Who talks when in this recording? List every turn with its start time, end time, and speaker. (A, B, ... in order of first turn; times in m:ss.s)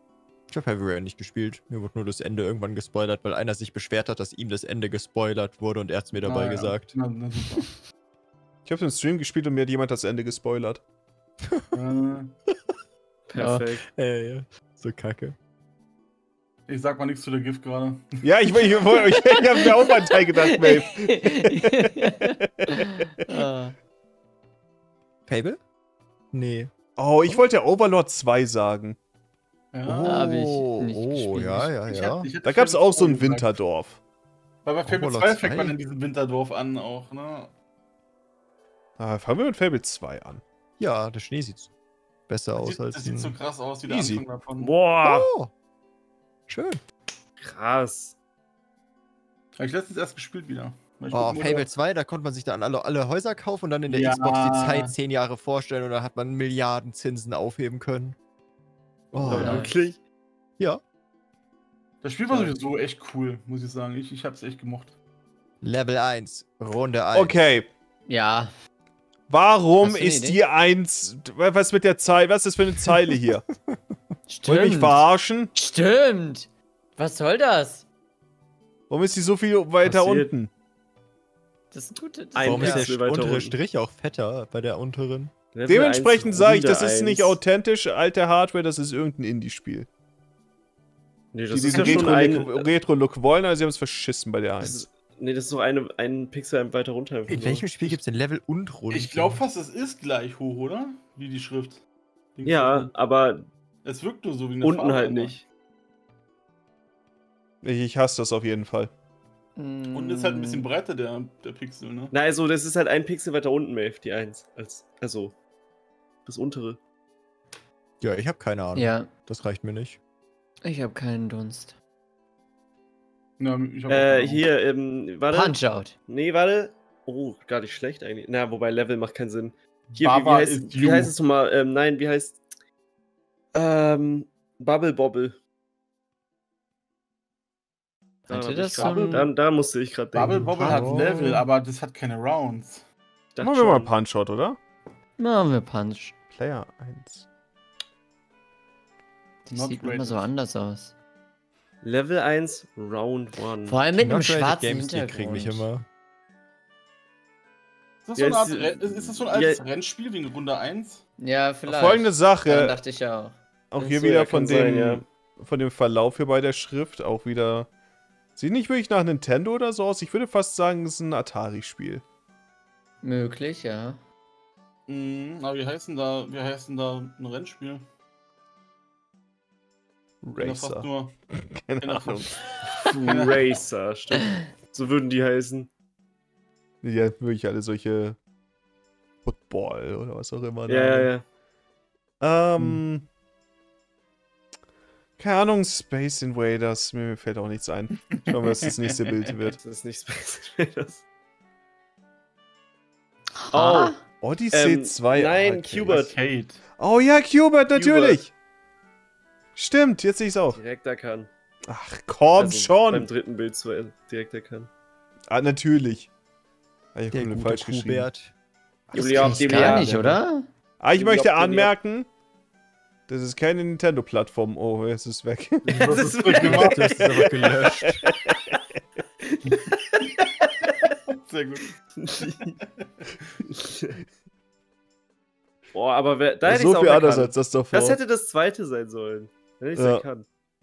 0:00.5-0:06.9 A
0:06.2-0:07.8 B
0:08.6-0:10.8 C
0:11.7-0:12.4 B
0:13.3-0:13.9 D
0:13.3-0:13.7 E
0:13.9-0:15.4 A
0:16.7-0:18.3 B
0:18.2-0:23.4 C
0:18.8-0:23.7 E
0:25.3-0:25.6 A
0:26.3-0:26.7 A
0:27.0-0:29.0 C
0:29.7-0:30.1 B
0:29.8-0:32.3 A
0:30.0-0:31.7 E
0:31.8-0:33.6 B
0:32.4-0:34.0 C
0:34.6-0:37.5 B
0:34.8-0:35.7 A
0:39.0-0:40.4 C
0:40.8-0:41.7 A
0:42.3-0:43.4 A
0:42.5-0:44.7 B
0:43.8-0:44.2 C
0:44.6-0:45.3 D
0:45.0-0:45.5 A
0:46.5-0:46.8 A
0:47.4-0:48.2 D
0:49.6-0:51.7 B
0:51.1-0:58.2 A
0:53.9-0:54.9 B
0:59.1-0:59.7 A
0:59.2-1:00.0 D
0:59.3-0:59.7 E
1:02.0-1:05.0 B
1:05.6-1:07.4 A
1:07.1-1:07.7 C
1:08.1-1:08.5 E
1:09.3-1:13.5 C
1:09.8-1:10.4 E
1:13.7-1:14.0 A
1:14.3-1:15.0 E
1:14.4-1:15.5 C
1:15.5-1:17.8 E
1:18.9-1:20.5 C
1:19.8-1:20.3 D
1:21.7-1:22.9 E
1:22.3-1:23.6 D
1:22.4-1:25.3 A
1:25.5-1:27.4 D
1:25.7-1:29.9 C
1:31.3-1:32.7 D
1:31.5-1:34.8 C
1:31.7-1:32.2 B
1:34.6-1:37.6 D
1:37.3-1:39.4 A
1:38.9-1:41.8 B
1:42.4-1:42.9 B
1:42.4-1:43.5 D
1:43.8-1:45.4 B
1:44.6-1:45.4 D
1:47.6-1:48.9 C
1:49.6-1:50.7 E
1:49.9-1:52.1 B
1:52.1-1:55.3 D
1:56.2-1:56.8 D
1:58.0-2:00.0 A
1:58.7-1:59.1 E
2:00.6-2:01.7 E
2:03.4-2:04.4 B
2:03.9-2:12.4 D
2:05.3-2:05.9 E
2:09.9-2:11.1 B
2:13.5-2:15.4 D
2:18.3-2:19.3 E
2:18.3-2:20.5 D
2:18.8-2:19.3 B
2:20.1-2:22.8 B
2:20.5-2:21.2 E
2:20.6-2:21.4 A
2:23.3-2:23.9 D
2:23.4-2:24.6 C
2:25.2-2:26.1 E
2:26.3-2:27.2 C
2:29.4-2:30.9 E
2:29.5-2:30.3 B
2:31.8-2:33.8 D
2:33.6-2:35.7 E
2:34.0-2:35.8 A
2:38.0-2:41.0 B
2:38.2-2:39.6 D
2:41.2-2:43.4 E
2:41.7-2:42.8 C
2:43.7-2:47.7 C
2:43.8-2:45.0 D
2:48.4-2:52.0 C
2:53.0-2:54.0 E
2:54.9-2:57.8 B
3:00.2-3:02.4 C
3:00.4-3:01.1 B
3:01.8-3:02.4 B
3:02.7-3:05.7 D
3:03.0-3:03.6 B
3:06.8-3:08.2 C
3:09.2-3:11.1 C
3:10.7-3:11.2 D
3:12.2-3:13.1 C
3:15.2-3:19.6 C
3:18.1-3:19.3 B
3:19.6-3:21.0 D
3:23.3-3:24.0 E
3:23.5-3:23.9 D
3:24.2-3:26.0 C
3:24.5-3:26.2 D
3:25.9-3:26.6 B
3:26.8-3:28.3 C
3:27.7-3:28.2 D
3:29.6-3:30.6 C
3:30.5-3:31.3 D
3:31.7-3:33.1 C
3:32.4-3:34.7 D
3:35.3-3:36.1 C
3:36.9-3:38.1 C
3:37.1-3:38.3 A
3:38.9-3:39.5 C
3:38.9-3:40.0 D
3:39.0-3:40.2 A
3:39.1-3:40.5 E
3:40.8-3:42.1 C
3:40.9-3:41.7 D
3:43.1-3:46.1 C
3:45.6-3:47.8 D
3:45.7-3:47.2 B
3:46.4-3:48.0 A
3:47.8-3:48.1 C
3:49.2-3:50.3 D
3:50.8-3:53.4 B
3:52.0-3:52.5 D
3:53.5-3:54.0 D
3:55.7-4:00.2 D
3:56.4-3:58.0 C
3:59.8-4:00.0 C